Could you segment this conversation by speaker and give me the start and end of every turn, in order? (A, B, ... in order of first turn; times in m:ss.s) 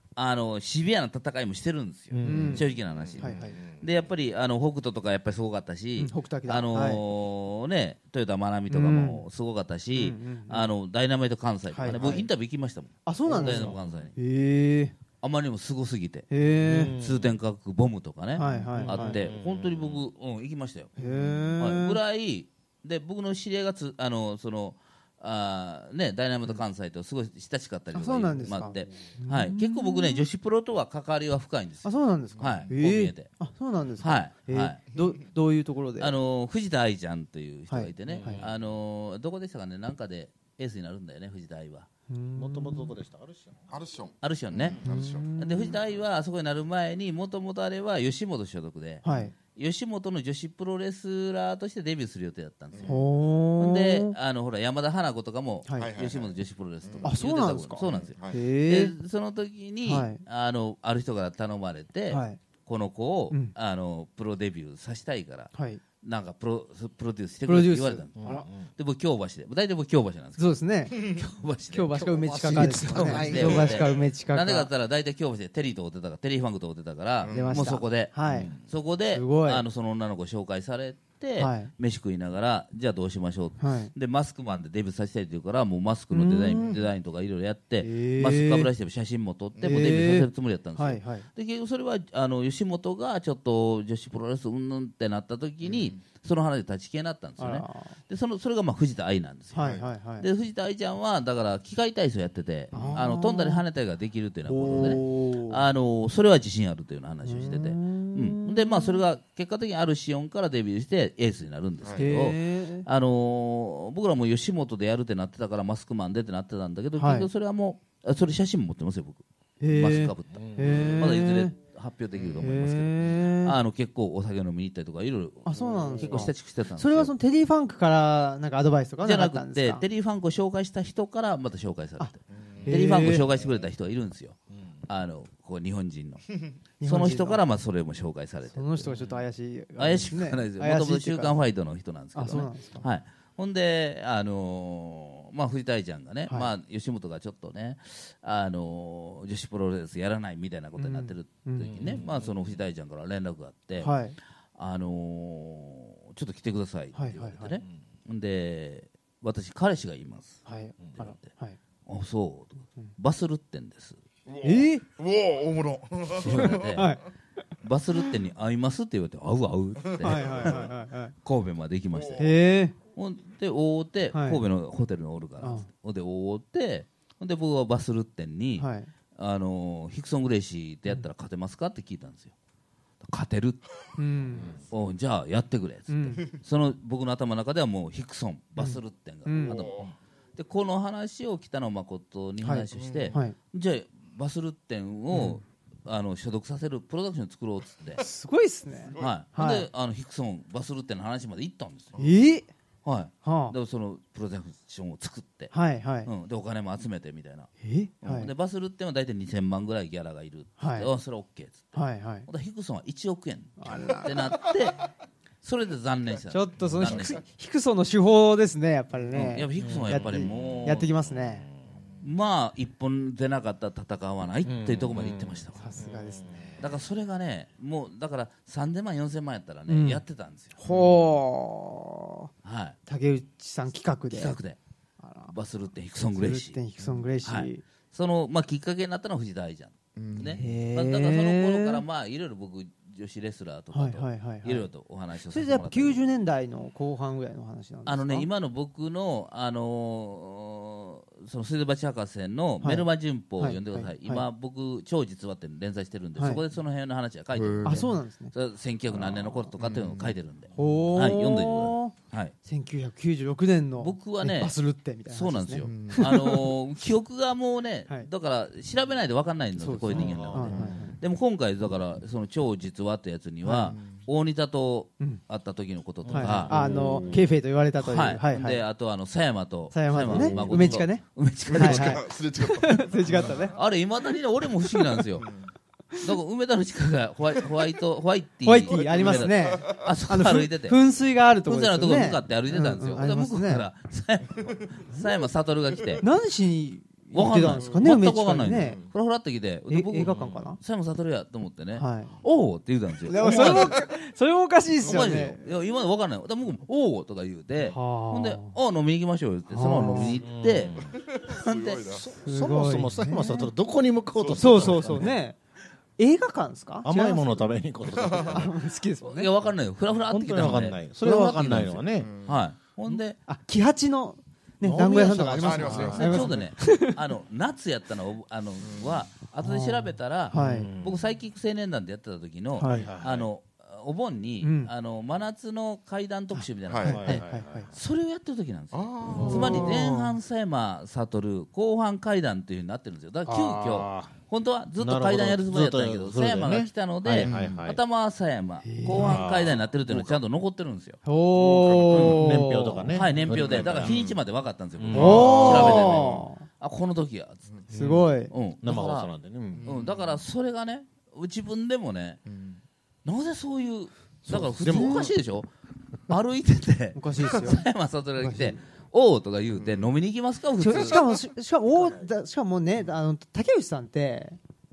0:00.2-0:14.1 A
0:02.1-0:03.6 B
0:02.2-0:02.6 C
0:03.2-0:03.5 C
0:06.0-0:07.0 C
0:08.7-0:09.2 C
0:09.9-0:10.7 C
0:11.7-0:12.2 C
0:13.0-0:14.9 C
0:13.2-0:14.1 B
0:15.2-0:16.3 A
0:16.3-0:16.9 C
0:16.6-0:17.4 B
0:17.0-0:20.9 A
0:18.4-0:19.2 C
0:18.4-0:20.1 B
0:21.0-0:21.5 B
0:21.0-0:22.0 C
0:21.6-0:33.3 A
0:27.9-0:30.2 C
0:31.8-0:36.1 C
0:32.4-0:32.7 D
0:34.0-0:34.8 A
0:36.0-0:41.9 A
0:37.7-0:38.4 C
0:38.0-0:38.5 B
0:42.1-0:42.9 C
0:42.4-0:43.7 B
0:43.7-0:45.3 D
0:44.2-0:44.8 A
0:44.8-0:45.8 C
0:45.4-0:49.0 A
0:49.0-0:49.3 C
0:49.5-0:53.0 A
0:52.7-0:53.0 D
0:52.8-0:54.1 C
0:53.6-1:05.5 A
0:55.8-0:57.2 D
0:57.0-0:58.9 C
0:57.8-0:58.4 D
0:59.8-1:00.2 C
1:02.1-1:02.4 C
1:05.5-1:05.8 C
1:06.0-2:07.1 A
1:07.4-1:08.5 C
1:08.2-1:08.7 B
1:10.4-1:11.0 C
1:10.9-1:11.2 D
1:11.7-1:14.7 C
1:12.0-1:14.0 B
1:13.3-1:13.6 D
1:17.2-1:17.8 D
1:17.3-1:18.5 C
1:18.3-1:18.6 B
1:19.1-1:19.6 C
1:21.4-1:21.7 C
1:23.6-1:23.9 C
1:26.1-1:26.7 C
1:26.5-1:26.8 D
1:27.8-1:28.7 C
1:29.6-1:29.8 D
1:29.6-1:31.2 C
1:35.6-1:36.0 D
1:37.4-1:37.9 C
1:39.5-1:40.2 C
1:39.6-1:39.9 D
1:42.7-1:43.0 D
1:42.7-1:43.6 C
1:44.4-1:45.6 C
1:47.2-1:49.0 C
1:51.8-1:52.1 D
1:51.9-1:52.8 C
1:57.0-1:57.3 C
1:59.6-2:01.5 C
2:00.3-2:01.0 B
2:02.4-2:03.6 C
2:05.4-2:09.8 C
2:05.7-2:06.0 D
2:09.0-2:16.2 A
2:12.3-2:12.7 D
2:12.7-2:13.2 C
2:14.5-2:14.8 B
2:16.8-2:17.4 C
2:16.8-2:18.9 A
2:18.5-2:21.4 C
2:19.8-2:34.0 A
2:22.1-2:22.8 C
2:30.8-2:32.0 C
2:31.8-2:32.4 B
2:33.8-2:34.2 C
2:34.6-2:40.4 A
2:36.9-2:37.6 C
2:40.4-2:41.6 C
2:40.9-2:41.3 A
2:41.8-2:44.0 A
2:44.2-2:46.8 D
2:44.4-2:44.8 C
2:46.2-2:47.0 A
2:46.3-2:47.0 C
2:47.6-2:50.6 A
2:49.8-2:50.7 D
2:50.0-2:51.1 C
2:51.2-2:52.3 A
2:51.9-2:52.3 D
2:52.2-2:52.7 C
2:53.0-3:02.3 A
2:54.1-2:54.4 C
2:55.4-2:55.7 C
2:58.6-2:58.9 C
3:03.0-3:03.6 A
3:04.0-3:04.5 C
3:04.7-3:18.0 A
3:05.9-3:06.2 C
3:08.6-3:09.7 C
3:09.4-3:09.9 D
3:12.4-3:13.3 C
3:12.7-3:13.2 D
3:15.1-3:15.4 C
3:18.0-3:19.7 C
3:19.0-3:21.9 A
3:21.9-3:22.2 D
3:22.0-3:22.5 C
3:22.8-3:25.5 A
3:23.2-3:23.5 C
3:25.5-3:26.1 C
3:26.0-3:27.5 A
3:27.6-3:28.3 C
3:28.0-3:34.9 A
3:30.6-3:30.9 C
3:31.7-3:32.3 C
3:33.6-3:34.4 C
3:35.4-3:37.2 A
3:36.3-3:41.5 C
3:39.1-3:40.9 A
3:39.6-3:42.0 B
3:42.0-3:45.6 A
3:44.4-3:46.7 B
3:45.6-3:46.6 C
3:46.6-3:50.5 A
3:49.7-3:50.0 C
3:50.6-3:52.3 C
3:50.7-3:50.9 D
3:52.4-3:52.8 A
3:52.8-3:54.4 C
3:54.1-3:54.6 A
3:55.0-3:55.3 C
3:55.3-3:56.6 A
3:56.0-3:57.6 C
3:57.2-4:06.0 A
4:00.0-4:00.4 D
4:00.3-4:01.8 C
4:03.7-4:04.7 C
4:05.3-4:08.3 C
4:07.8-4:22.3 A
4:12.6-4:12.9 C
4:13.4-4:14.2 C
4:16.2-4:16.4 C
4:17.3-4:17.9 D
4:17.6-4:18.3 C
4:18.9-4:19.5 C
4:19.6-4:20.2 D
4:20.5-4:26.5 C
4:23.8-4:24.5 A
4:25.1-4:36.5 A
4:25.6-4:26.1 D
4:29.6-4:30.9 C
4:29.9-4:30.9 B
4:30.0-4:30.8 D
4:33.4-4:33.7 C
4:33.7-4:34.0 D
4:36.0-4:37.2 B
4:36.1-4:38.6 C
4:36.5-4:37.2 D
4:37.8-4:42.0 A
4:39.7-4:43.6 C
4:40.0-4:40.8 B
4:41.4-4:43.6 D
4:43.1-4:45.2 A
4:44.7-4:45.0 C
4:45.2-4:45.5 D
4:46.0-4:50.8 A
4:48.4-4:53.6 C
4:48.6-4:49.9 D
4:51.4-4:56.0 A
4:54.4-4:55.0 D
4:55.7-4:56.0 D
4:56.0-4:58.8 C
4:57.1-5:03.8 A
4:57.5-4:58.9 D
4:59.7-5:00.6 C
5:00.0-5:00.5 B
5:01.8-5:02.2 C
5:03.1-5:05.4 C
5:03.2-5:03.9 D
5:04.8-5:05.3 D
5:04.8-5:11.9 A
5:07.7-5:08.5 C
5:09.5-5:10.2 C
5:10.1-5:11.0 B
5:10.8-5:12.1 D
5:11.9-5:15.1 B
5:12.2-5:13.5 C
5:14.1-5:15.1 D
5:14.4-5:15.4 C
5:16.0-5:17.5 C
5:16.8-5:18.5 B
5:17.9-5:18.5 D
5:18.3-5:19.3 C
5:19.0-5:23.2 A
5:20.1-5:22.1 B
5:21.9-5:22.4 D
5:22.9-5:27.0 C
5:24.6-5:26.3 B
5:25.4-5:26.4 D
5:25.9-5:51.0 A
5:28.6-5:29.0 D
5:29.4-5:30.7 C
5:30.3-5:31.1 B
5:32.6-5:32.9 C
5:32.6-5:33.3 B
5:34.4-5:34.7 C
5:36.3-5:37.7 C
5:36.6-5:37.0 D
5:36.8-5:37.7 B
5:38.7-5:40.0 D
5:39.1-5:39.6 B
5:39.1-5:40.0 C
5:43.2-5:44.1 B
5:44.8-5:47.8 B
5:47.2-5:47.6 D
5:48.6-5:49.2 C
5:48.9-5:50.2 B
5:51.0-5:52.9 C
5:51.3-5:52.2 D
5:51.9-5:54.1 B
5:52.9-5:57.4 A
5:53.1-5:54.2 D
5:54.8-5:55.9 B
5:54.9-5:56.2 D
5:54.9-5:56.4 C
5:57.7-5:58.3 C
5:57.7-5:58.0 B
5:58.3-5:59.1 A
5:58.6-5:59.6 B
5:59.5-6:00.2 D
5:59.6-6:02.2 A
6:02.2-6:02.6 D
6:03.0-6:05.5 A
6:04.3-6:05.1 B
6:04.6-6:05.1 C
6:06.1-6:11.1 A
6:06.9-6:07.6 C
6:08.2-6:08.6 C
6:09.6-6:09.9 D
6:10.6-6:14.4 C